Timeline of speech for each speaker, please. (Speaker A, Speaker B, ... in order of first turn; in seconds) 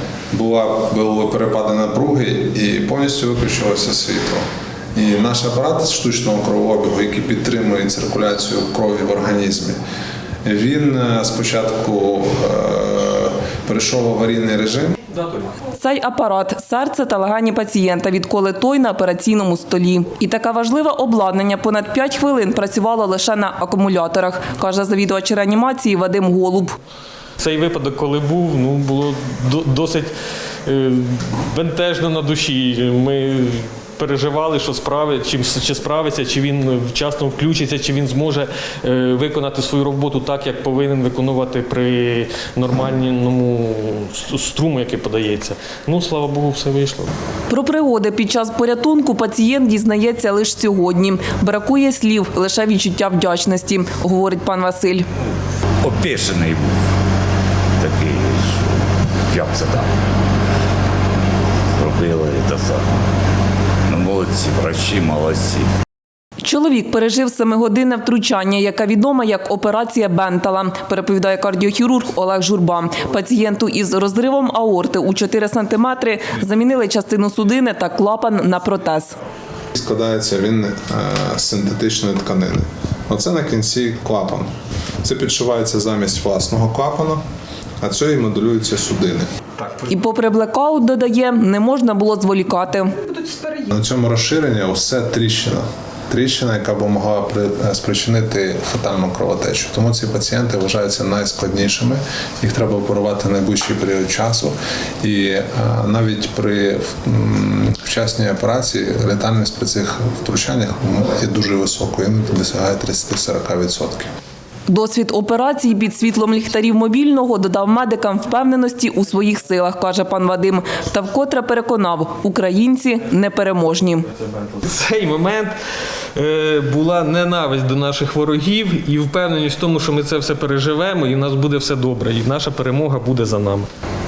Speaker A: 0.3-4.4, 5.0-9.8, 10.4-14.9, 79.7-84.5, 85.0-87.2, 87.8-89.3, 93.5-114.1
Speaker B: 15.1-15.5, 27.4-30.1, 30.6-47.1, 124.1-125.5, 126.1-133.7
Speaker C: 15.7-26.8, 47.5-55.1, 66.4-79.1, 89.7-93.4, 114.7-124.0
Speaker D: 55.8-56.9, 57.8-59.9, 61.7-63.1, 63.9-65.7